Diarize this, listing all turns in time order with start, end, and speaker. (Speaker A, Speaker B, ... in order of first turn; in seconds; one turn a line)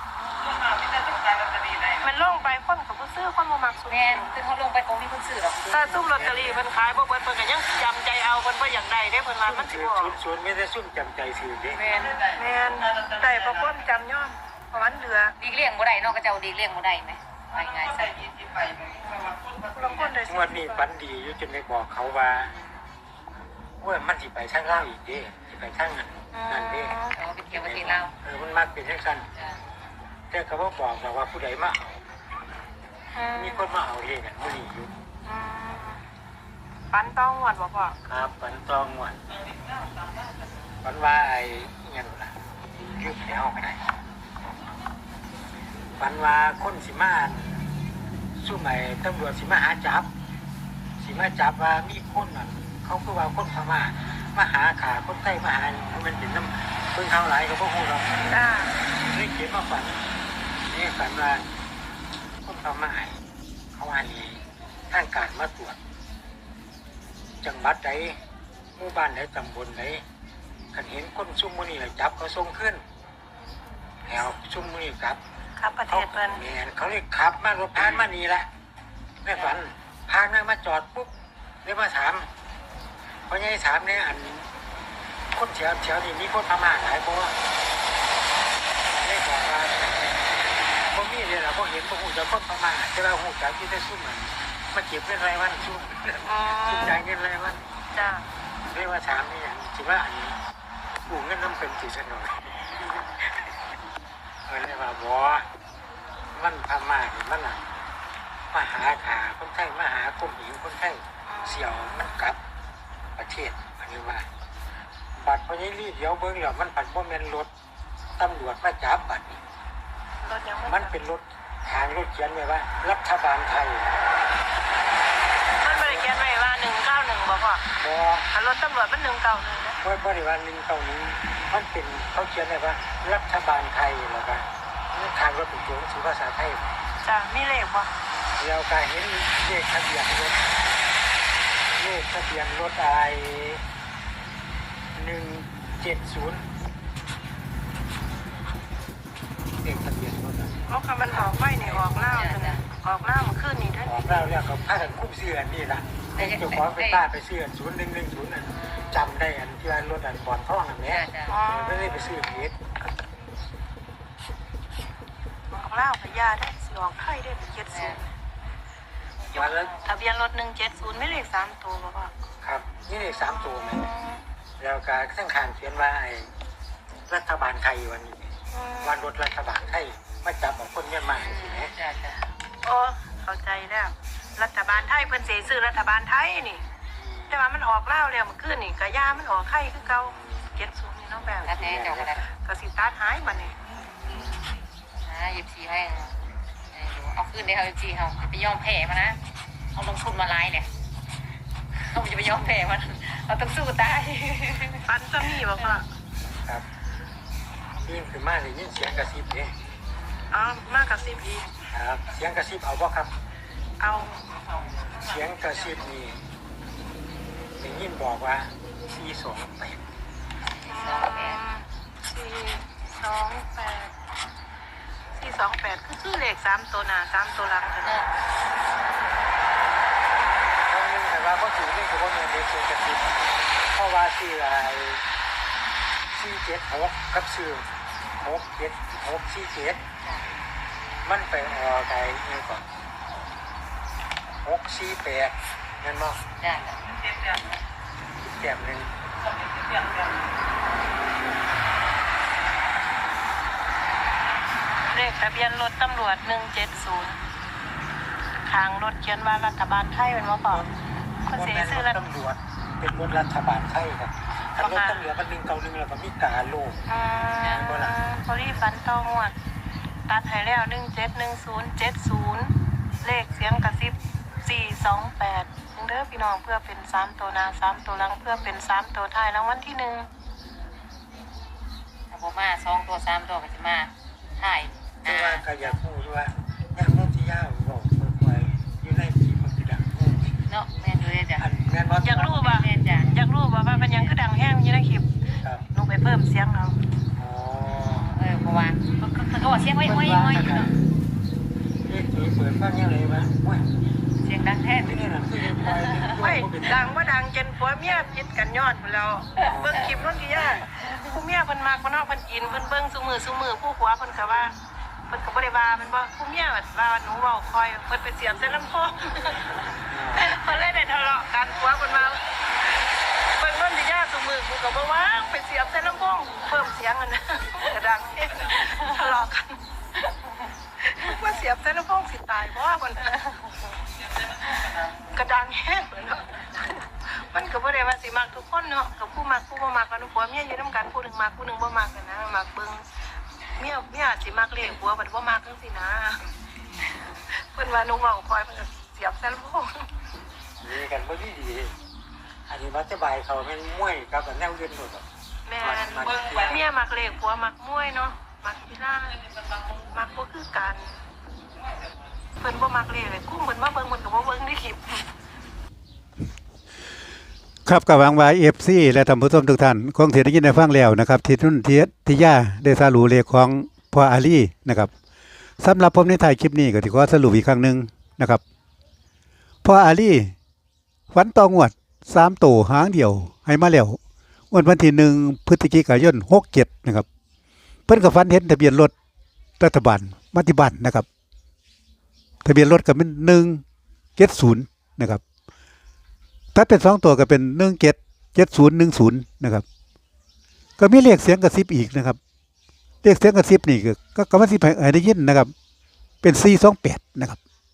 Speaker A: 0.2-1.2
Speaker B: 1.9-4.3
Speaker C: 3.9-6.0
Speaker A: 5.7-6.6
Speaker B: 5.7-10.2
Speaker A: 9.4-11.8
Speaker B: 11.8-15.3
Speaker C: 15.4-18.4
Speaker B: 19.0-20.9
Speaker A: 20.2-22.5
Speaker A: 23.8-27.0
Speaker B: 26.3-27.2
Speaker C: 27.1-28.1
Speaker A: 27.5-29.3
Speaker C: 29.3-29.6
Speaker A: 30.3-32.0
Speaker B: 33.1-33.6
Speaker A: 33.3-34.9
Speaker B: 35.2-36.0
Speaker B: 36.9-38.0
Speaker A: 38.0-39.2
Speaker A: 40.8-43.9
Speaker A: 46.0-47.6
Speaker A: 48.4-50.1
Speaker A: 51.0-58.1
Speaker B: 58.3-58.7
Speaker A: 59.1-60.0
Speaker A: 60.6-61.5
Speaker A: 62.4-63.2
Speaker A: 63.7-65.8
Speaker A: 67.4-68.2
Speaker A: 68.8-70.0
Speaker A: 70.7-72.8
Speaker A: 74.0-75.2
Speaker B: 75.6-76.4
Speaker A: 75.9-78.5
Speaker A: 79.2-81.1
Speaker A: 81.6-82.3
Speaker A: 83.3-84.5
Speaker A: 85.3-87.3
Speaker A: 88.9-90.2
Speaker A: 90.9-97.6
Speaker B: 96.2-97.0
Speaker B: 97.9-98.3
Speaker A: 98.7-100.4
Speaker A: 101.0-102.5
Speaker A: 104.5-105.5
Speaker A: 106.3-107.6
Speaker A: 108.5-112.4
Speaker B: 111.3-112.1
Speaker A: 113.2-114.3
Speaker A: 115.2-117.5
Speaker A: 118.2-119.4
Speaker B: 120.2-120.9
Speaker A: 120.7-123.9
Speaker B: 125.6-127.6
Speaker A: 125.6-126.1
Speaker A: 127.8-128.2
Speaker B: 128.3-129.8
Speaker A: 129.8-136.7
Speaker B: 137.0-137.9
Speaker A: 138.4-140.5
Speaker A: 141.8-143.6
Speaker A: 144.9-146.4
Speaker A: 149.6-150.5
Speaker B: 150.7-154.1
Speaker A: 151.1-151.8
Speaker C: 151.9-152.6
Speaker A: 153.8-162.5
Speaker C: 156.1-157.0
Speaker C: 158.5-159.1
Speaker C: 160.9-161.4
Speaker B: 161.3-162.2
Speaker B: 165.5-168.1
Speaker C: 167.7-168.0
Speaker B: 169.3-172.1
Speaker A: 169.3-169.7
Speaker C: 169.3-169.8
Speaker A: 172.4-173.8
Speaker B: 173.3-174.2
Speaker A: 174.6-176.3
Speaker A: 177.1-181.7
Speaker B: 178.5-179.0
Speaker C: 181.1-182.2
Speaker B: 182.6-186.6
Speaker A: 186.9-187.4
Speaker B: 187.3-191.7
Speaker A: 190.0-190.4
Speaker A: 191.4-192.2
Speaker C: 191.4-192.2
Speaker B: 192.3-193.6
Speaker A: 193.9-194.5
Speaker C: 195.0-196.2
Speaker C: 196.7-199.2
Speaker C: 199.7-200.7
Speaker C: 201.7-204.9
Speaker B: 204.8-205.8
Speaker A: 206.2-206.6
Speaker A: 207.8-209.5
Speaker B: 210.3-211.5
Speaker A: 211.7-213.1
Speaker B: 213.8-214.2
Speaker A: 214.9-216.2
Speaker A: 217.6-219.8
Speaker C: 220.6-221.4
Speaker B: 220.7-223.9
Speaker B: 225.1-228.0
Speaker C: 227.8-228.1
Speaker A: 230.7-233.2
Speaker A: 233.7-235.0
Speaker A: 236.1-239.8
Speaker A: 241.0-242.6
Speaker A: 244.4-246.2
Speaker C: 246.4-246.9
Speaker A: 248.2-248.9
Speaker B: 254.9-257.2
Speaker B: 258.4-260.6
Speaker B: 261.3-262.0
Speaker A: 261.3-266.8
Speaker B: 264.6-265.0
Speaker B: 266.9-269.3
Speaker A: 267.4-267.9
Speaker B: 270.1-280.1
Speaker C: 282.1-285.6
Speaker A: 285.0-290.3
Speaker C: 290.4-291.4
Speaker A: 291.4-292.4
Speaker B: 292.0-295.1
Speaker C: 292.2-293.1
Speaker C: 293.8-294.1
Speaker B: 295.7-296.8
Speaker A: 297.2-298.1
Speaker C: 297.9-300.7
Speaker A: 299.8-300.7
Speaker A: 301.9-303.7
Speaker C: 304.2-305.0
Speaker A: 304.8-306.8
Speaker C: 305.6-306.2
Speaker B: 306.1-314.5
Speaker A: 309.4-310.0
Speaker B: 315.1-319.4
Speaker A: 319.9-320.3
Speaker B: 320.1-322.2
Speaker B: 323.3-329.6
Speaker B: 330.8-333.4
Speaker B: 335.0-342.8
Speaker B: 343.5-346.2
Speaker B: 347.3-349.9
Speaker A: 350.6-351.7
Speaker A: 352.5-355.1
Speaker B: 355.4-361.0
Speaker A: 355.6-356.6
Speaker B: 362.4-365.0
Speaker D: 367.6-374.9
Speaker D: 375.6-378.4
Speaker D: 379.6-380.3
Speaker D: 381.1-384.0
Speaker D: 384.5-387.1
Speaker D: 387.9-388.9
Speaker D: 389.6-391.1
Speaker D: 392.4-393.6
Speaker D: 394.2-395.2
Speaker D: 396.5-399.6
Speaker D: 400.8-402.2
Speaker D: 403.0-405.5
Speaker D: 406.2-407.4